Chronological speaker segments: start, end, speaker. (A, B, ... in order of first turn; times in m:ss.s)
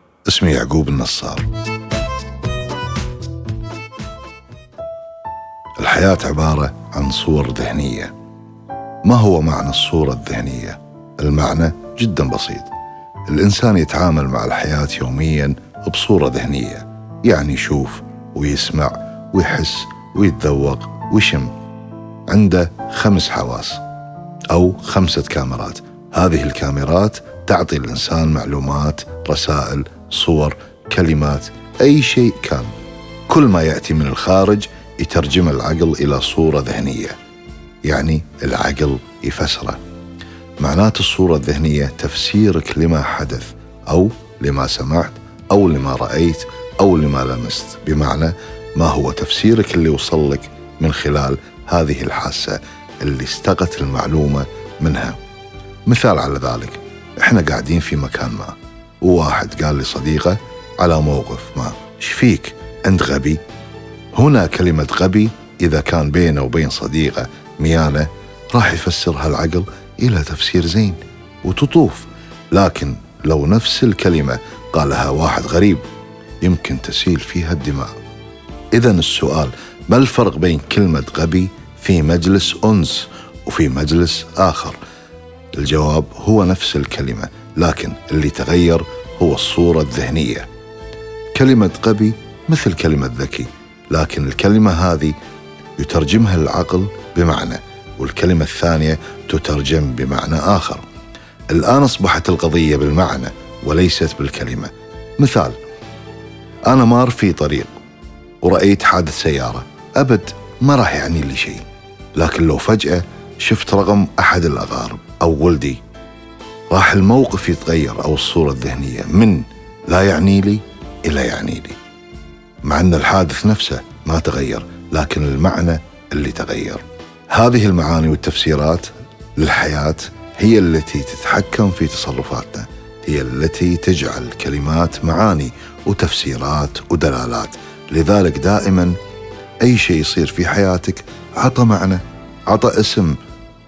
0:00.3-0:01.5 A
0:05.8-0:08.1 A
0:09.0-0:12.7 A
0:13.3-0:21.5 A
0:22.3-0:23.8 A
0:24.5-0:32.7 A
0:33.3-0:37.2 A
0:37.9-0:39.8 A
0:40.6-0:55.2 A
0:55.9-1:03.4 A
1:04.2-1:15.8 A
1:16.4-1:18.0 A
1:18.7-1:24.8 A
1:25.6-1:30.5 A
1:31.4-1:35.2 A
1:35.8-1:40.8 A
1:41.5-1:45.6 A
1:46.7-1:47.7 A
1:48.4-1:51.6 A
1:52.2-1:55.8 A
1:56.7-2:01.8 A
2:02.6-2:19.0 A
2:19.6-2:23.2 A